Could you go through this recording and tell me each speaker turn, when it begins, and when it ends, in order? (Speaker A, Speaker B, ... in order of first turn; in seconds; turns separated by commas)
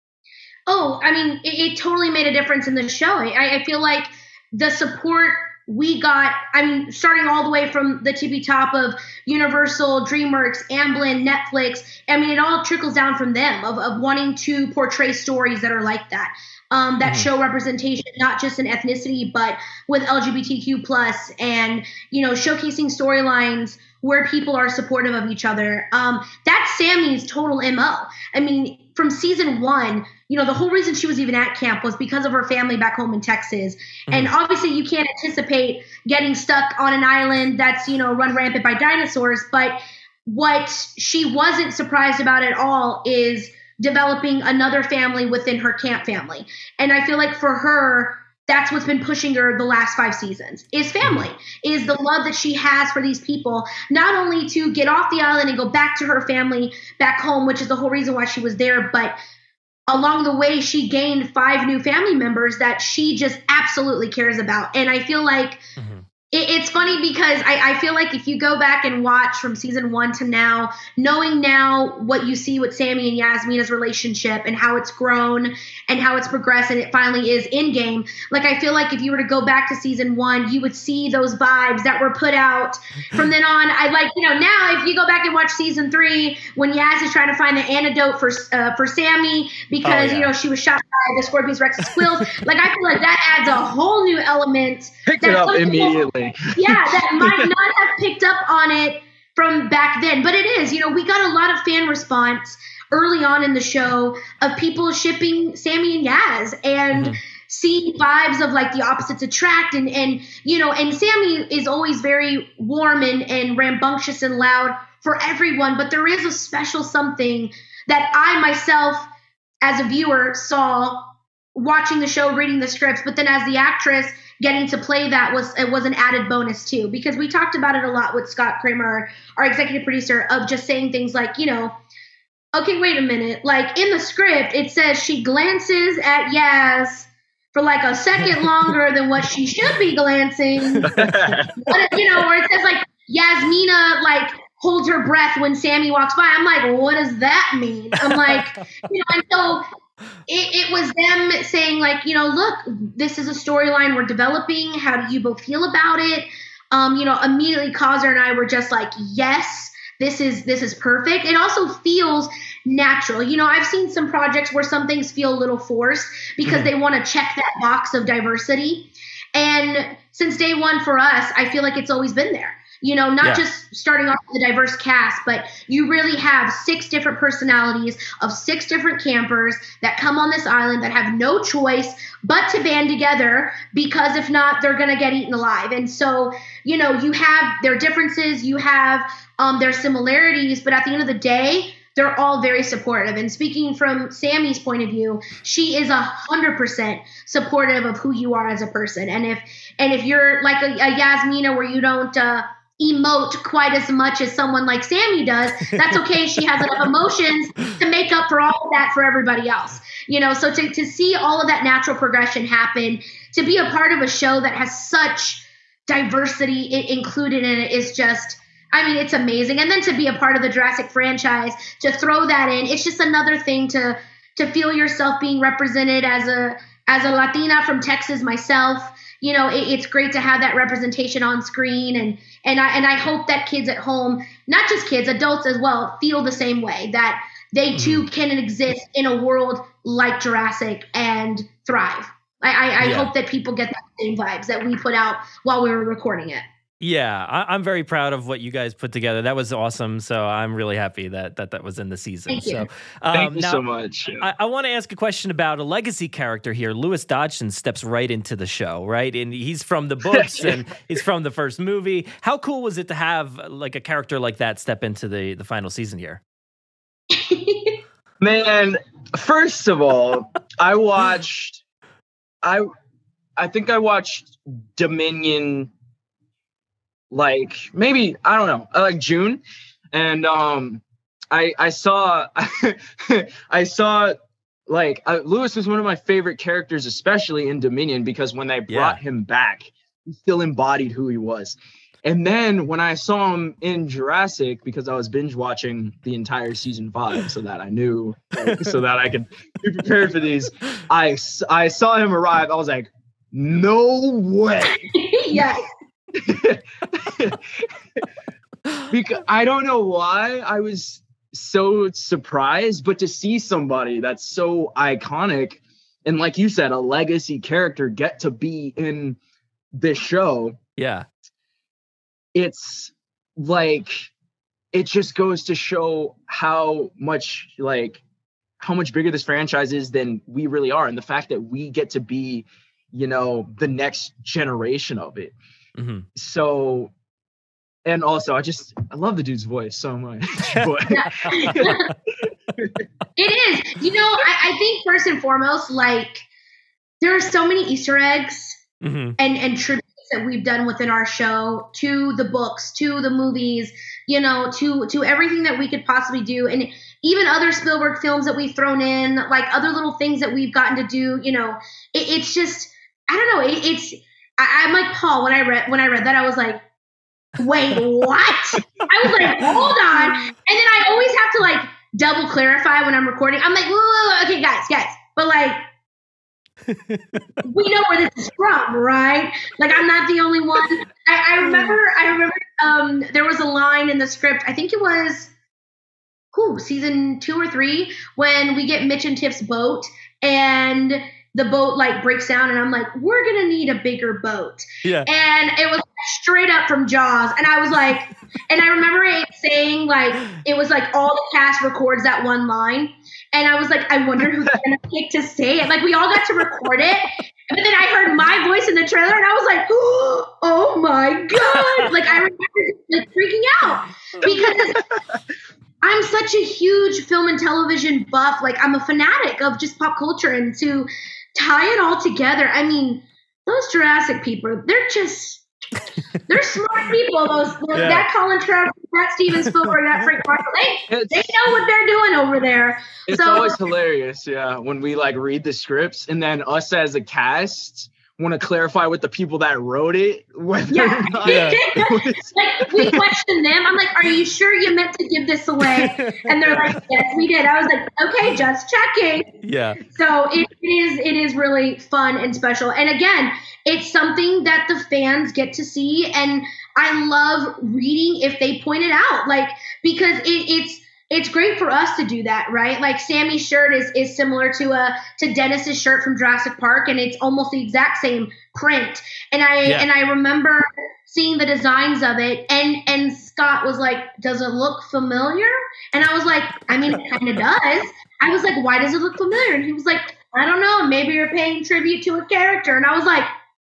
Speaker A: 0.7-59.2, Speaker A: 59.9-65.6, Speaker B: 65.8-66.0, Speaker A: 66.3-96.0, Speaker B: 89.8-90.3, Speaker C: 95.0-97.5, Speaker A: 96.5-119.1, Speaker B: 106.9-107.2, Speaker A: 119.6-131.7, Speaker A: 132.5-140.9, Speaker B: 140.8-141.3, Speaker C: 140.8-141.5, Speaker A: 141.6-149.7, Speaker B: 148.1-148.4, Speaker A: 150.3-246.4, Speaker B: 237.7-238.1, Speaker B: 242.8-243.1, Speaker B: 246.8-253.6, Speaker A: 252.3-252.7, Speaker C: 253.1-254.3, Speaker B: 254.2-266.2, Speaker C: 260.1-260.6, Speaker A: 267.1-267.8, Speaker C: 268.2-271.6, Speaker C: 272.4-272.7, Speaker C: 273.4-275.7, Speaker C: 277.1-279.4, Speaker C: 279.9-304.8, Speaker B: 288.7-289.0, Speaker B: 298.4-298.7, Speaker A: 304.7-305.6, Speaker C: 306.1-308.0, Speaker C: 308.9-319.2, Speaker C: 319.8-320.6, Speaker B: 320.8-321.1, Speaker C: 322.3-324.1, Speaker C: 324.7-328.0, Speaker C: 328.6-335.3, Speaker B: 335.8-336.1, Speaker C: 336.1-336.9, Speaker C: 337.8-341.8, Speaker A: 340.9-341.9, Speaker C: 342.3-342.8, Speaker A: 343.2-346.2, Speaker A: 347.0-348.6, Speaker B: 348.8-349.1, Speaker A: 349.2-366.6, Speaker A: 367.4-375.6, Speaker B: 369.2-370.3, Speaker B: 376.7-377.2, Speaker A: 377.4-385.3, Speaker B: 381.5-381.8, Speaker A: 386.3-414.8, Speaker B: 411.4-411.9, Speaker C: 414.2-415.2, Speaker A: 415.8-425.4, Speaker A: 426.3-433.6, Speaker B: 427.7-428.1, Speaker B: 429.4-429.8, Speaker C: 430.9-431.4, Speaker C: 433.1-442.8, Speaker A: 440.7-449.3, Speaker B: 441.2-441.6, Speaker B: 445.8-446.7, Speaker B: 449.4-449.8, Speaker A: 449.9-483.3